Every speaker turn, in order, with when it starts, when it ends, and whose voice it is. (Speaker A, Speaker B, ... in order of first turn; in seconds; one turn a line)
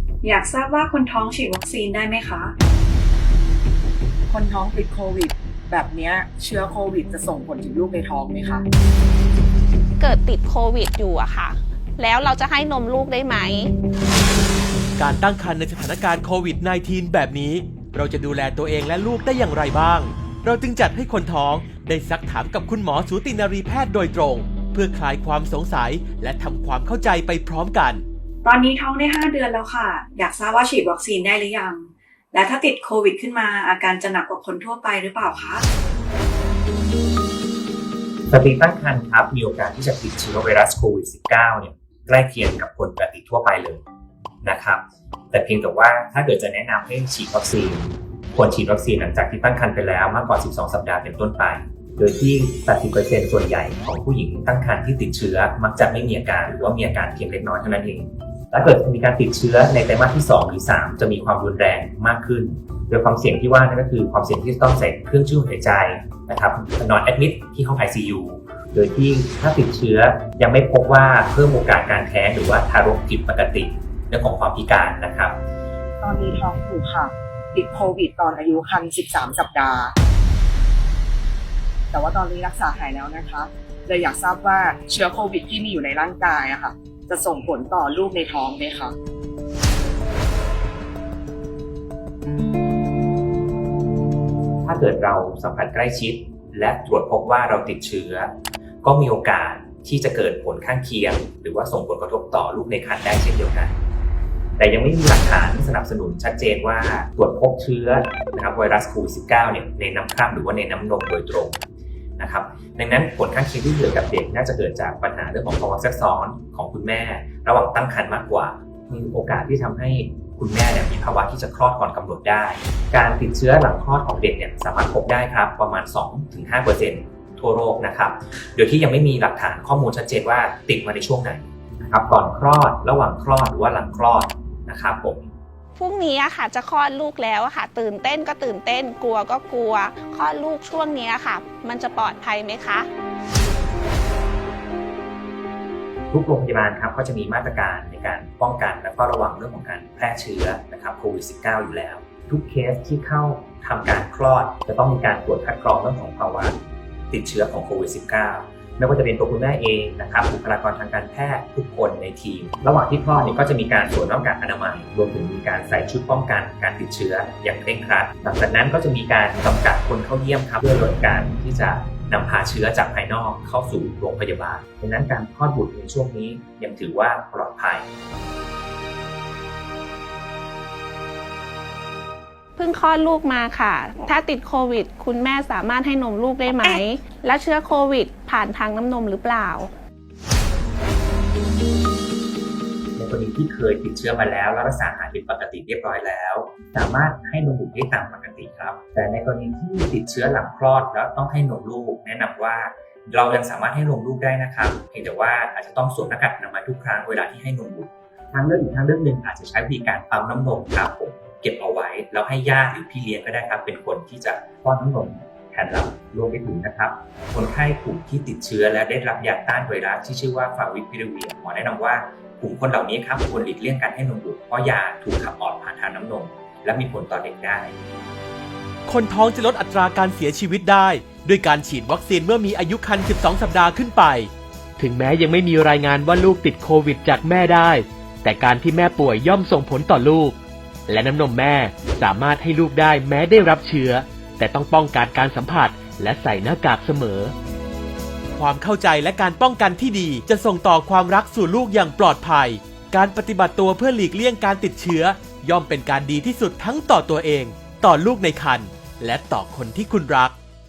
Speaker A: 0.2-2.5
Speaker B: 4.3-8.6
Speaker C: 10.0-13.7
Speaker D: 15.0-28.0
Speaker A: 28.4-35.6
Speaker E: 38.3-43.8
Speaker E: 44.4-75.3
Speaker B: 76.0-79.9
Speaker B: 81.9-88.9
Speaker E: 94.6-98.3
Speaker E: 98.8-103.8
Speaker E: 104.6-111.6
Speaker E: 112.2-135.3
Speaker C: 135.8-142.9
Speaker E: 146.1-156.6
Speaker E: 157.1-177.9
Speaker C: 182.6-189.7
Speaker E: 192.9-227.7
Speaker D: 228.9-247.3
Speaker D: 248.3-260.3